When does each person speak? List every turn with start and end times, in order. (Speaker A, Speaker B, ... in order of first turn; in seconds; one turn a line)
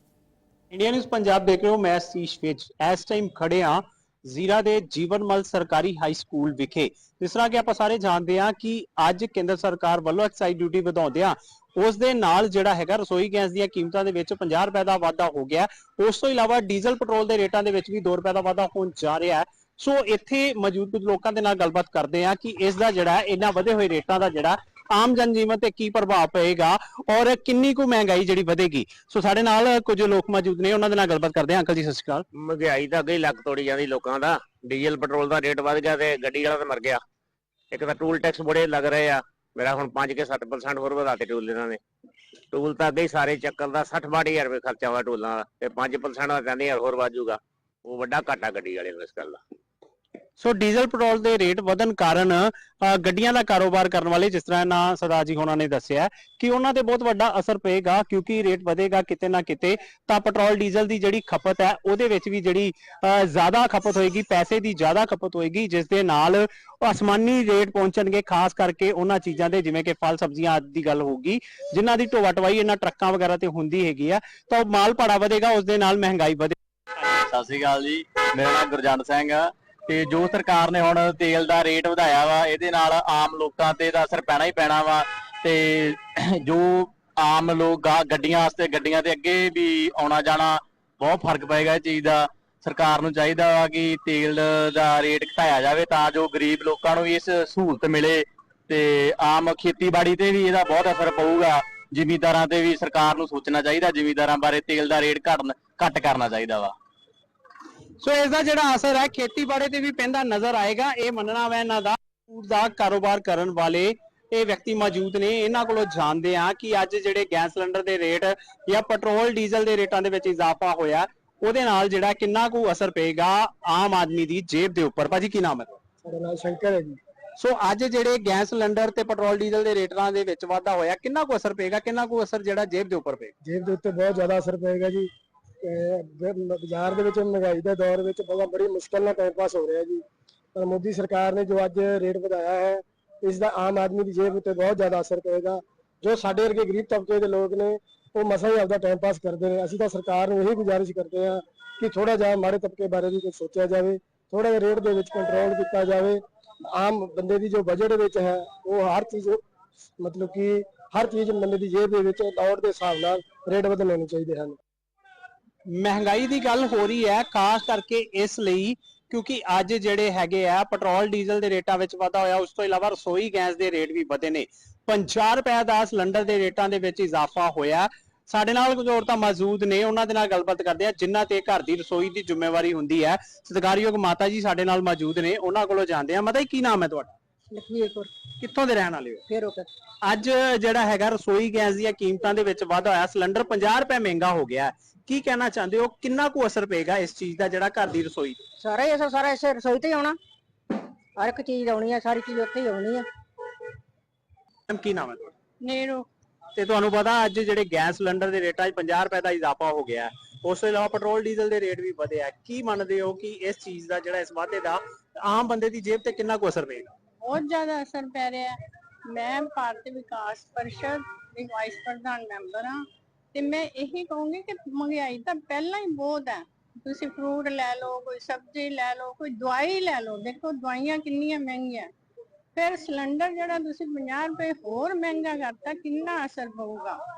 Speaker A: 0.7-32.2
Speaker B: 32.3-37.0
Speaker B: 37.7-41.8
Speaker B: 42.5-49.4
Speaker A: 50.4-76.5
Speaker C: 77.0-106.7
Speaker A: 108.0-125.8
Speaker D: 126.0-127.0
Speaker A: 127.4-133.3
Speaker D: 133.4-135.1
Speaker D: 135.6-140.0
Speaker D: 140.6-156.2
Speaker D: 156.7-159.4
Speaker D: 160.0-164.6
Speaker A: 165.7-187.1
Speaker E: 187.5-188.1
Speaker A: 188.4-189.2
Speaker E: 189.3-189.7
Speaker A: 190.0-198.4
Speaker E: 198.6-200.2
Speaker E: 201.2-203.1
Speaker A: 204.7-205.3
Speaker F: 205.6-206.1
Speaker A: 206.6-216.9
Speaker F: 217.2-218.6
Speaker F: 219.1-222.8
Speaker F: 223.3-231.9
Speaker F: 232.6-237.0